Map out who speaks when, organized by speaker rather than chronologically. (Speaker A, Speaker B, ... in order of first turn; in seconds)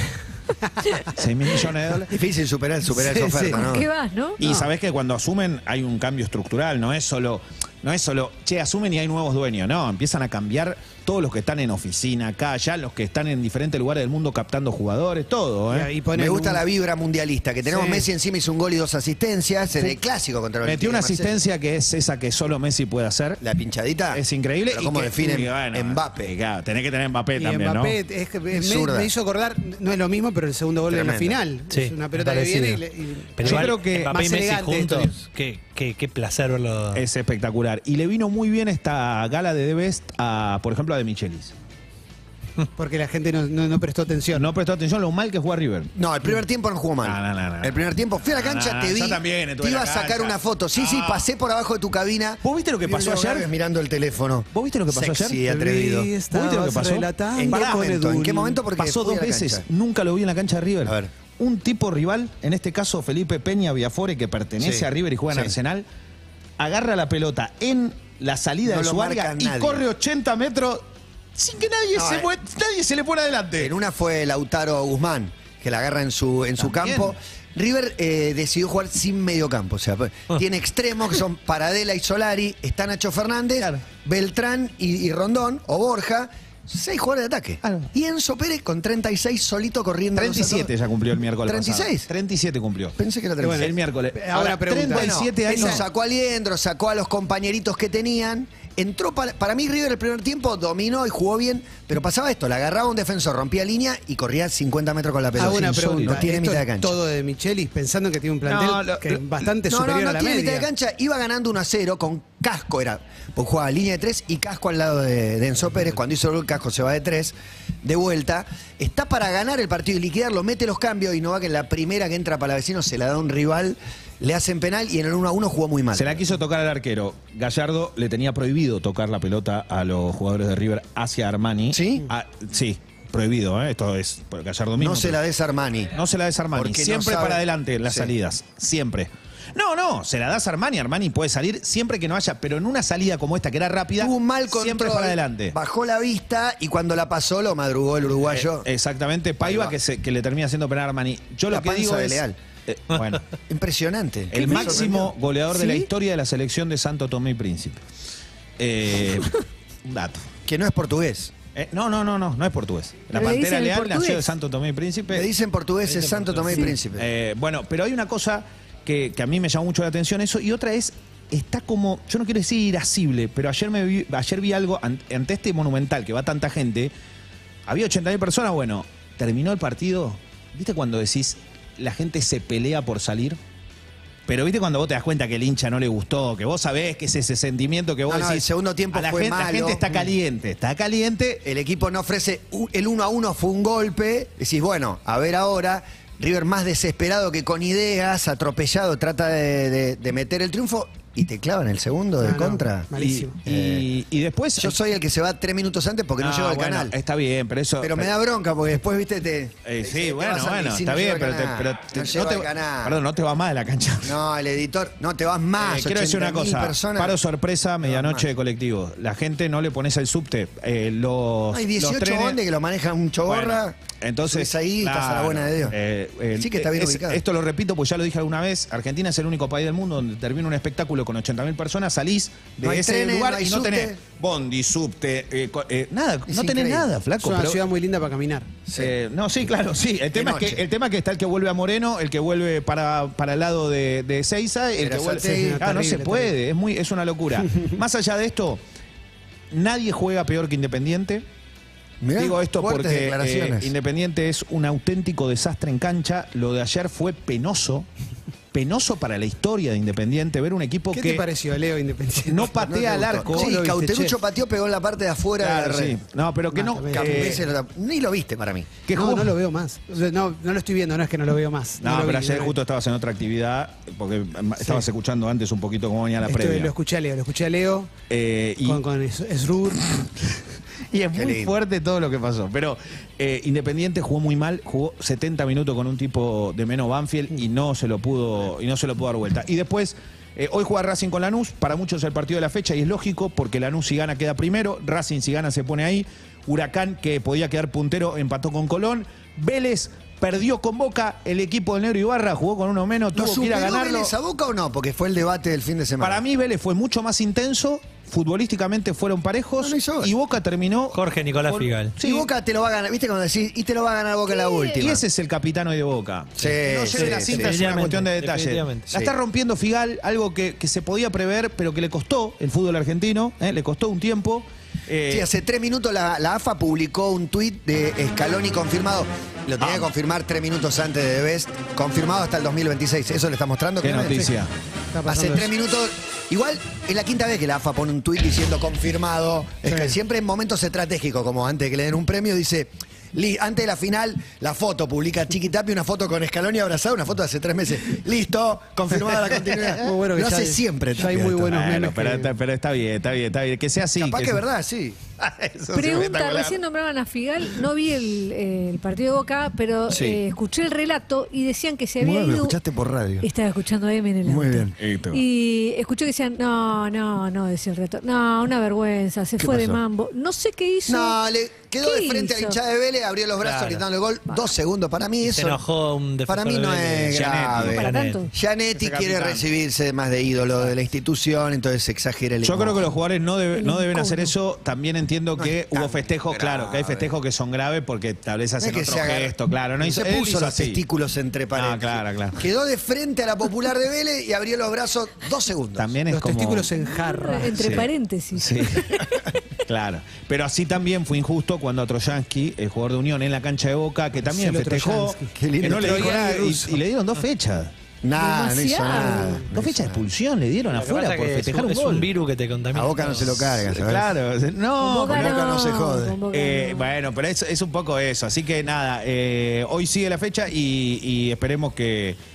Speaker A: 1.1-2.1, 4.4-15.9, 20.6-23.4, 24.1-28.0, 33.4-34.2, 36.9-41.5, 44.3-45.9, 47.0-51.3, 52.4-53.5, 54.5-55.4, 56.3-57.9, 58.8-65.8, 66.6-73.7, 76.6-77.1, 87.6-87.9, 90.1-93.0, 93.6-95.8, 105.4-106.2, 108.5-109.2, 125.9-135.2, 135.9-145.6, 148.3-153.2, 154.3-157.8, 158.6-160.2, 161.6-165.3, 166.9-176.9, 177.7-183.4, 184.3-191.4, 202.9-204.8, 206.2-208.1, 209.6-214.2, 215.6-222.4, 223.2-237.6, 238.8-248.6, 249.5-251.2, 252.2-257.9, 258.5-261.2, 262.2-263.6, 265.4-267.4, 268.9-269.4, 271.8-276.7, 278.1-278.8, 280.9-304.1, 306.0-312.3, 314.8-325.3, 329.6-329.9, 333.8-334.5, 349.4-349.8, 351.5-354.4, 355.1-356.6, 364.8-365.2, 377.1-377.9, 378.7-379.5, 382.4-390.8, 391.6-392.4, 395.8-396.7, 397.6-398.9, 399.6-407.7, 409.5-412.1, 413.2-415.5, 416.3-422.2
Speaker B: 2.1-3.9, 16.1-21.4, 23.4-26.3, 28.5-29.1, 30.9-31.4, 45.9-56.1, 57.4-59.6, 60.8-61.1, 64.6-65.5, 68.6-69.8, 71.9-72.3, 73.6-90.7, 91.4-92.1, 93.0-93.8, 94.9-106.9, 109.7-126.2, 131.7-132.1, 134.8-135.9, 136.6-138.1, 144.0-148.7, 149.4-149.7, 151.5-152.4, 153.5-155.1, 160.4-161.3, 165.1-167.1, 188.1-190.1, 191.4-203.9, 204.6-206.9, 207.8-213.0, 214.0-217.2, 217.8-218.3, 221.5-225.8, 226.4-227.2, 232.6-234.0, 236.3-236.9, 238.7-238.9, 240.1-240.6, 244.8-245.6, 252.0-253.7, 262.6-266.0, 266.9-268.8, 281.1-281.6, 303.1-306.2, 309.6-310.1, 312.0-315.0, 316.4-317.9, 318.9-319.1, 325.1-334.3, 335.1-351.6, 354.0-355.1, 359.9-360.2, 362.0-363.3, 364.2-364.7, 369.4-369.8, 370.9-375.6, 376.2-382.9, 385.4-387.1, 388.6-395.9, 405.4-406.3, 408.0-410.1, 412.7-414.1, 415.1-416.2
Speaker C: 3.0-3.6, 15.7-16.6, 17.6-18.1, 27.4-35.1, 42.8-44.5, 55.5-58.6, 93.4-95.8, 105.4-110.7, 202.2-203.3, 237.2-238.5, 245.1-246.3, 260.9-262.7, 263.2-264.2, 266.5-267.4, 268.9-272.6, 276.2-277.9, 278.6-280.0, 333.9-334.3, 334.9-335.5, 339.6-339.9, 349.7-352.3, 396.1-397.9, 404.1-406.8
Speaker D: 3.5-4.4, 154.4-154.7, 163.1-164.3, 314.3-314.7, 355.7-362.6, 363.2-371.2, 371.8-372.6, 377.7-378.3, 383.6-384.3, 396.8-399.4, 408.1-409.4, 414.8-416.9
Speaker E: 31.7-32.8, 33.4-37.0, 310.9-311.9, 316.9-318.8, 373.4-373.9, 375.2-378.2, 410.7-413.6